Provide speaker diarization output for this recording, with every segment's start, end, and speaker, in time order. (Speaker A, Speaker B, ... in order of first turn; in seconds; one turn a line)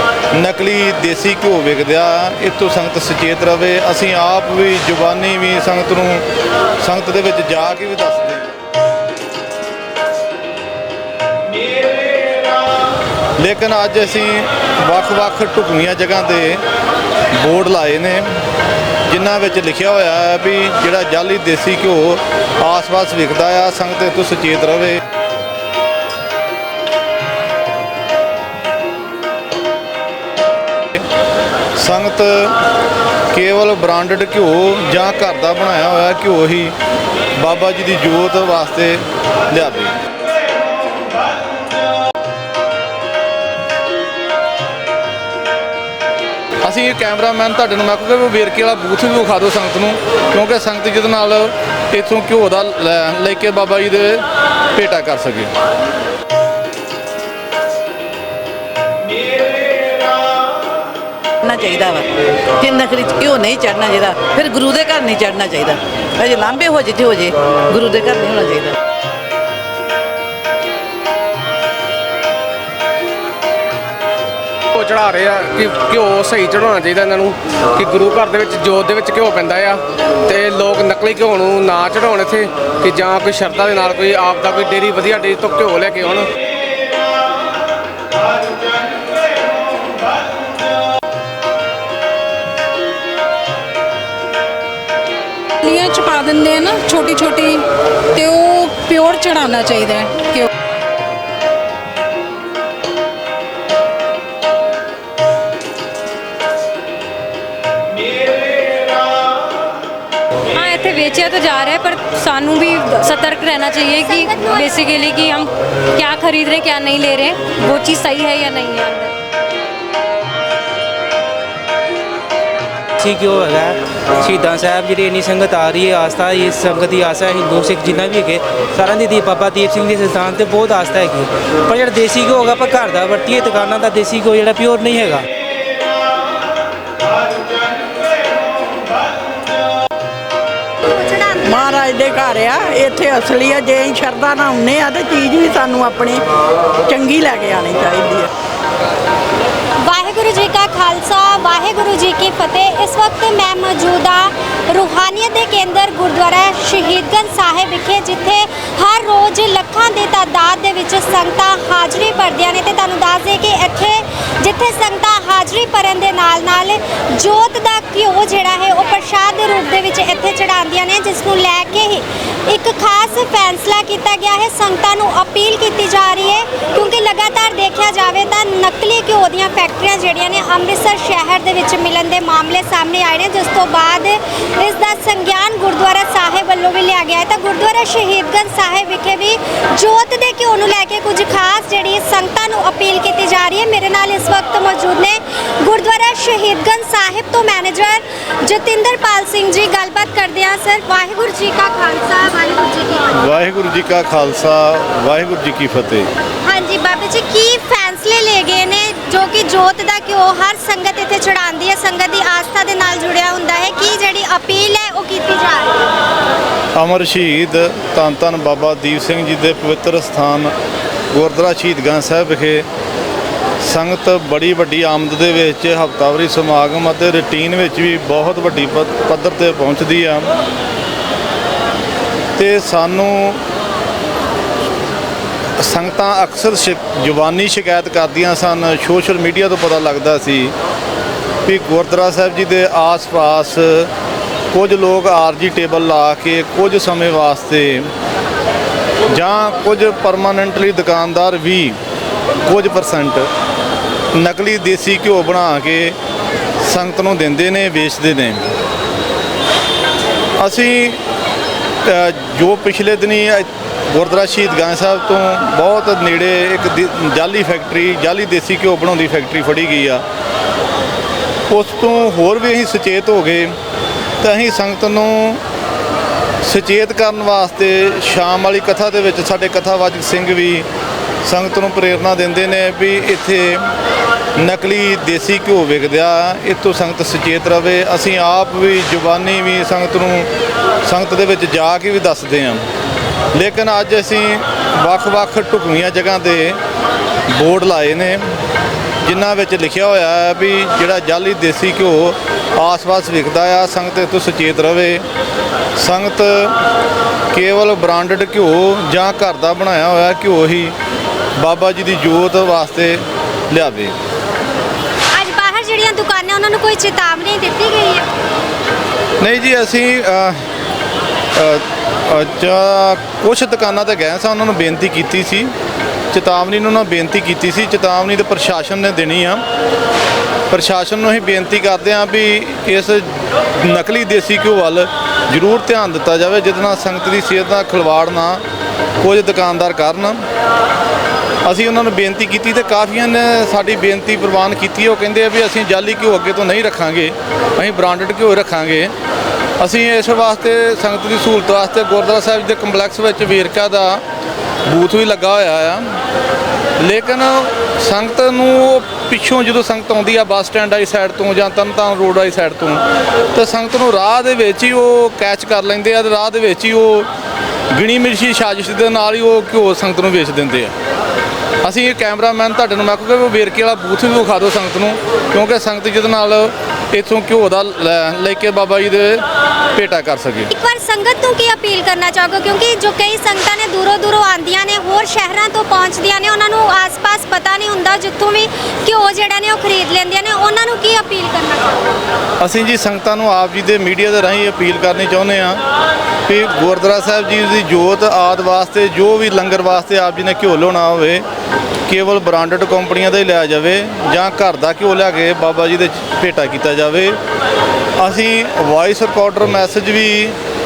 Speaker A: 0.3-6.2
Speaker A: 6.8-8.5
Speaker A: 13.4-16.6
Speaker A: 17.3-18.3
Speaker A: 19.1-25.0
Speaker A: 31.8-32.5
Speaker A: 33.3-36.8
Speaker A: 37.4-40.0
Speaker A: 46.6-54.2
Speaker A: 54.7-55.5
Speaker B: 61.5-62.0
Speaker B: 62.6-68.7
Speaker C: 74.7-86.3
Speaker D: 95.6-100.5
Speaker E: 110.5-119.1
Speaker F: 114.0-114.8
Speaker G: 123.0-135.3
Speaker F: 140.8-141.8
Speaker H: 141.4-146.2
Speaker H: 146.9-148.3
Speaker F: 149.8-203.3
Speaker A: 203.1-206.1
Speaker F: 206.4-215.8
Speaker A: 216.8-220.5
Speaker A: 221.1-222.7
Speaker A: 223.6-230.3
Speaker A: 232.4-233.4
Speaker A: 235.6-240.5
Speaker A: 241.4-243.9
Speaker A: 244.5-247.9
Speaker A: 249.1-251.8
Speaker A: 252.4-253.3
Speaker A: 254.1-256.0
Speaker A: 256.6-258.5
Speaker A: 260.4-261.0
Speaker A: 261.9-270.0
Speaker A: 271.5-273.6
Speaker A: 274.2-275.4
Speaker A: 276.4-280.7
Speaker A: 281.2-283.7
Speaker A: 284.4-290.3
Speaker A: 290.8-292.6
Speaker A: 293.3-296.6
Speaker A: 297.3-298.2
Speaker A: 299.0-305.0
Speaker A: 305.8-306.5
Speaker A: 307.3-310.8
Speaker A: 311.4-313.9
Speaker F: 315.1-318.1
Speaker A: 319.2-320.4
Speaker A: 321.4-325.5
Speaker A: 326.1-329.4
Speaker A: 330.5-338.4
Speaker A: 339.0-340.2
Speaker A: 341.4-348.9
Speaker A: 349.6-354.0
Speaker A: 354.7-356.0
Speaker A: 356.8-362.8
Speaker A: 363.4-367.1
Speaker A: 367.7-370.7
Speaker A: 371.6-379.2
Speaker A: 379.7-380.5
Speaker F: 380.5-392.0
Speaker A: 392.4-395.6
Speaker A: 396.3-401.2
Speaker A: 401.9-407.2
Speaker A: 408.0-410.4